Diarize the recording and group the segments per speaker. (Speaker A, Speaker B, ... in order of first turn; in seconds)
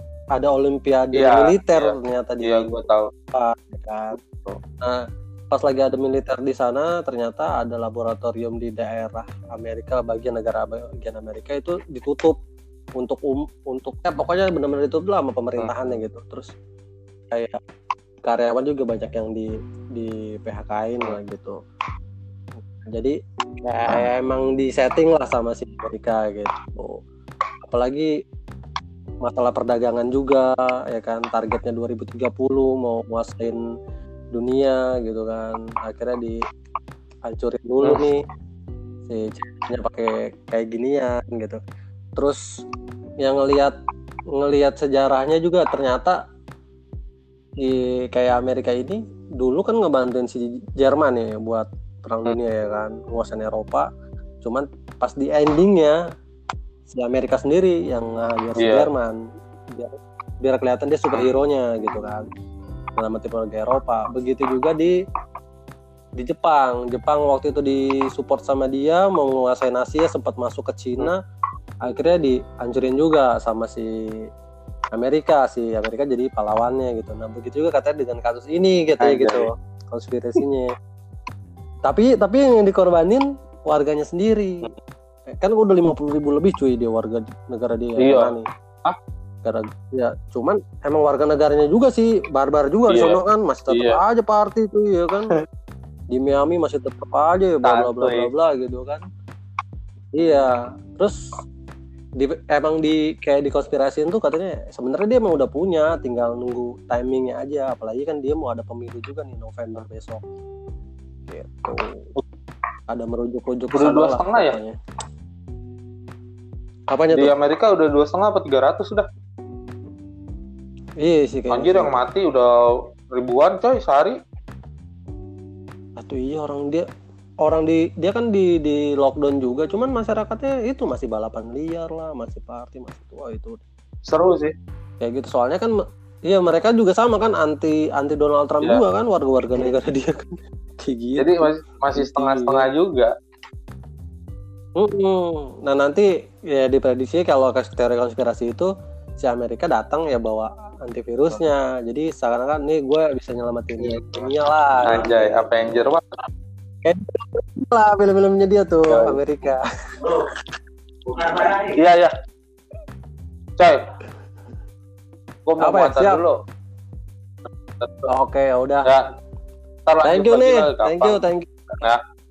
Speaker A: 0.3-4.2, 4.8-12.4, 13.0-16.5, 17.3-17.6, 18.3-21.6, 22.8-27.0, 27.7-28.1, 29.2-33.6, 34.3-36.4, 37.3-38.2, 39.1-41.6, 42.2-42.4, 43.2-43.8, 44.3-46.2, 47.6-53.9, 54.4-56.0, 56.9-59.2, 59.7-62.3, 63.0-65.0, 66.2-71.2, 71.8-74.3, 74.9-80.7, 81.8-84.7, 85.3-88.5, 89.4-95.3, 96.1-99.0, 100.1-101.4, 102.2-110.2, 111.3-112.1, 112.9-114.8, 116.9-117.3, 121.0-122.0, 126.0-126.9, 127.4-133.6, 135.0-142.7, 144.8-155.8, 156.8-160.2, 165.6-166.2, 168.1-168.9, 170.0-171.6
Speaker B: 1.1-3.1, 4.2-4.6, 15.6-15.9, 37.8-38.1, 58.6-58.9, 79.0-79.5, 88.0-89.0, 92.9-94.0, 97.6-98.3, 113.8-114.6, 117.1-119.1, 121.5-124.2, 134.1-134.5, 141.2-143.1, 153.8-154.3, 154.9-156.0, 158.9-159.2, 161.1-162.1, 163.6-163.8, 165.5-166.4, 167.8-168.1, 169.9-171.2